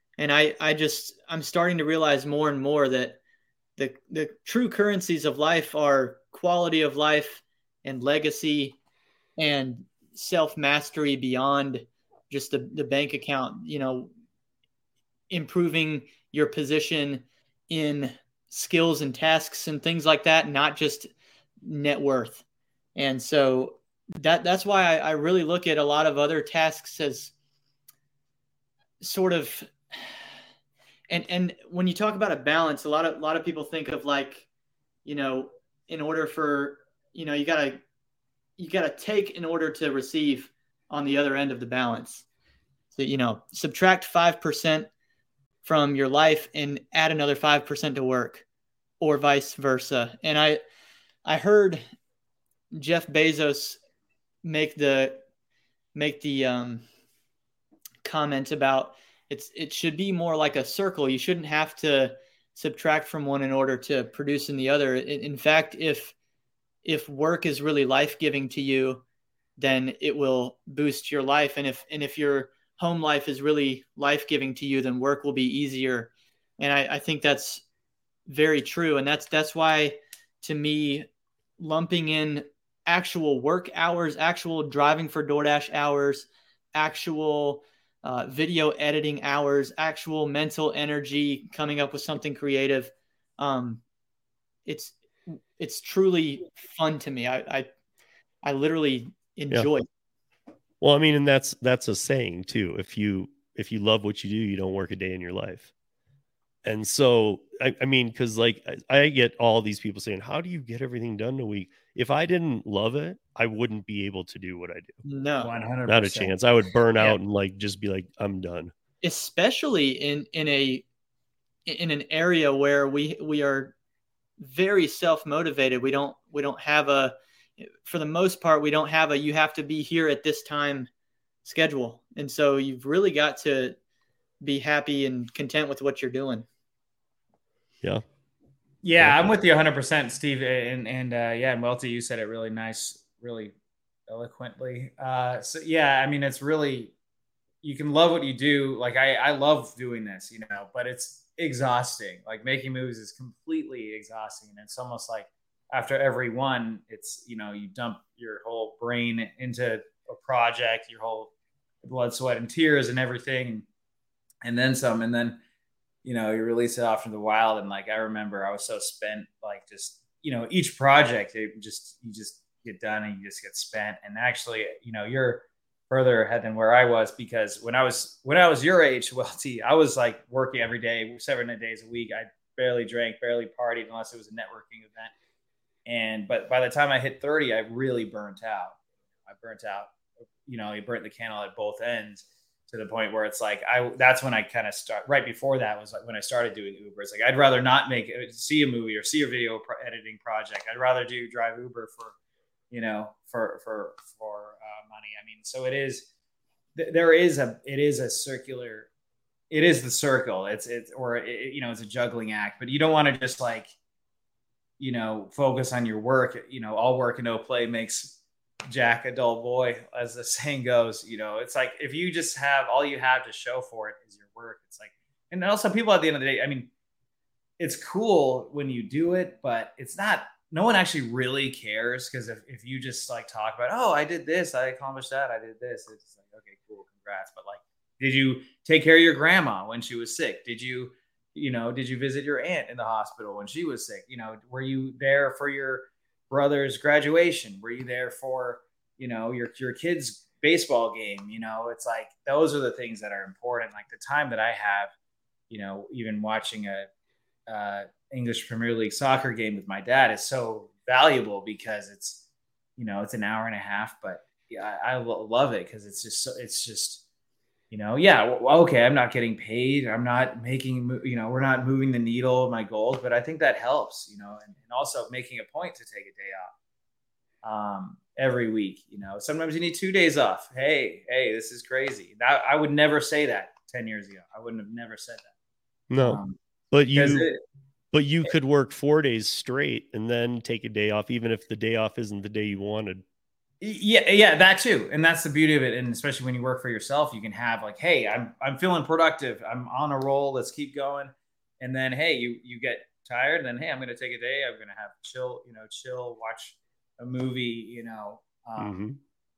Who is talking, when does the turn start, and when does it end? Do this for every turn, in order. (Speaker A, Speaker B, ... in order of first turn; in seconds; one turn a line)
Speaker A: 0.2-3.2
Speaker A: 3.8-8.8
Speaker A: 9.4-14.1
Speaker A: 15.3-21.1
Speaker A: 21.6-22.4
Speaker A: 22.9-27.3
Speaker A: 29.0-30.1
Speaker A: 31.1-34.5
Speaker A: 35.0-37.8
Speaker A: 38.6-42.2
Speaker A: 42.9-44.9
Speaker A: 45.6-48.4
Speaker A: 49.0-50.6
Speaker A: 51.2-51.8
Speaker A: 52.7-53.8
Speaker A: 54.4-55.2
Speaker A: 55.9-56.8
Speaker A: 58.0-66.1
Speaker A: 66.8-69.0
Speaker A: 69.6-77.6
Speaker A: 78.3-81.1
Speaker A: 81.6-93.8
Speaker A: 94.7-97.7
Speaker A: 98.4-99.8
Speaker B: 100.8-105.7
Speaker B: 106.6-115.0
Speaker A: 115.0-115.5
Speaker C: 115.4-116.4
Speaker B: 115.9-118.7
Speaker A: 119.0-120.8
Speaker A: 121.7-123.7
Speaker A: 124.4-130.9
Speaker A: 131.4-133.8
Speaker A: 134.4-136.4
Speaker C: 138.8-143.5
Speaker B: 139.0-139.3
Speaker C: 144.1-146.9
Speaker C: 147.6-161.3
Speaker C: 161.8-163.7
Speaker C: 164.4-165.4
Speaker C: 166.0-185.1
Speaker C: 185.8-189.9
Speaker C: 190.4-202.2
Speaker C: 202.7-206.1
Speaker C: 206.8-208.9
Speaker C: 209.5-213.7
Speaker C: 214.8-226.7
Speaker C: 227.6-254.9
Speaker C: 255.5-256.9
Speaker C: 257.5-262.2
Speaker C: 262.8-267.0
Speaker C: 267.7-276.5
Speaker C: 277.4-285.3
Speaker B: 285.9-287.3
Speaker C: 286.0-286.4
Speaker C: 286.9-287.4
Speaker B: 287.9-293.0
Speaker C: 293.6-308.7
Speaker B: 308.6-309.0